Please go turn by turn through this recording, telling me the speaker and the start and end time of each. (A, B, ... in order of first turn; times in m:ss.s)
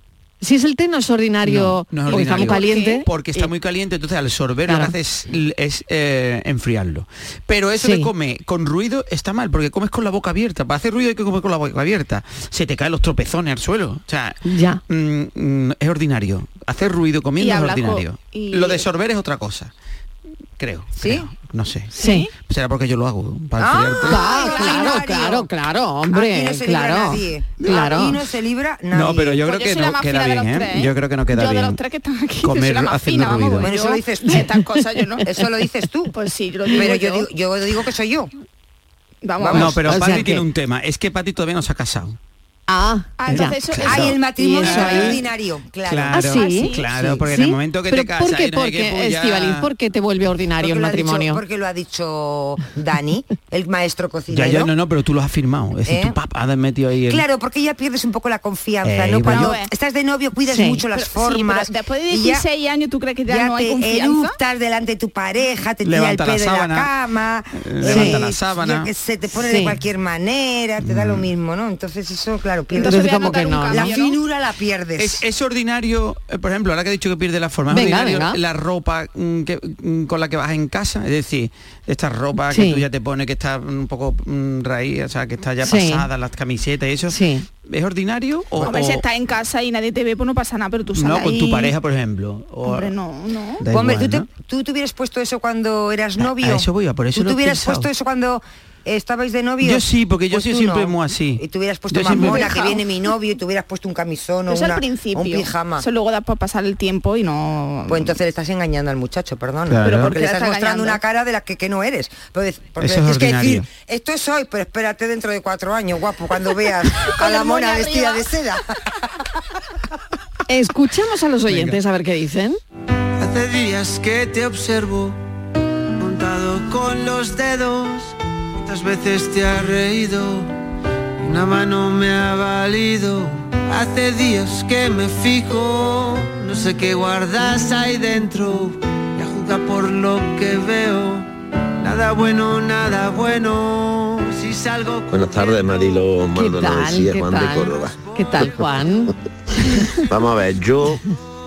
0:00.4-0:03.5 A
0:01.4-0:19.7 B
0:02.1-0:03.0 C
0:04.6-0:04.9 A
0:07.8-0:08.1 A
0:14.4-0:14.8 A
0:17.4-0:18.8 C
0:20.6-0:25.0 B
0:21.0-0:21.3 D
0:21.9-0:22.3 C
0:22.0-0:22.3 A
0:23.6-0:25.5 D
0:24.0-0:28.2 A
0:24.5-0:24.8 C
0:26.1-0:29.4 D
0:28.9-0:31.8 B
0:29.4-0:35.2 C
0:32.4-0:33.7 B
0:33.6-0:34.5 D
0:35.2-0:36.1 D
0:36.2-0:37.3 C
0:36.7-0:38.3 D
0:39.2-0:39.8 C
0:39.4-0:39.8 D
0:39.5-0:42.2 B
0:39.8-0:40.4 A
0:42.7-0:43.8 A
0:43.2-0:45.1 C
0:43.3-0:45.2 B
0:43.8-0:46.3 D
0:44.3-0:45.2 A
0:45.8-0:49.7 B
0:46.1-0:51.4 A
0:46.3-0:47.0 C
0:50.6-0:54.7 D
0:54.3-0:57.2 B
0:55.8-0:56.1 D
0:57.1-1:02.4 D
0:58.8-0:59.6 B
0:59.3-0:59.7 C
1:00.5-1:00.8 A
1:00.9-1:04.4 C
1:03.3-1:15.2 D
1:05.8-1:06.9 B
1:07.5-1:08.9 B
1:07.8-1:08.2 A
1:09.3-1:09.8 A
1:10.8-1:11.3 B
1:12.7-1:14.2 C
1:12.8-1:13.9 A
1:15.0-1:29.0 B
1:17.7-1:18.4 A
1:22.5-1:22.8 A
1:25.6-1:26.1 A
1:27.1-1:27.4 A
1:28.6-1:31.7 C
1:30.9-1:33.0 B
1:32.6-1:33.6 C
1:33.6-1:34.2 B
1:33.7-1:45.8 D
1:36.2-1:37.9 B
1:39.6-1:42.6 B
1:42.1-1:42.8 C
1:44.5-1:48.1 C
1:47.9-1:58.6 D
1:49.7-1:50.2 B
1:49.8-1:51.0 C
1:52.8-1:53.6 B
1:57.0-1:58.2 C
2:00.5-2:02.6 A
2:01.5-2:01.8 B
2:03.2-2:05.2 E
2:06.0-2:10.5 E
2:11.2-2:21.3 E
2:21.8-2:26.1 E
2:25.1-2:28.7 F
2:26.3-2:29.1 A
2:30.0-2:31.0 F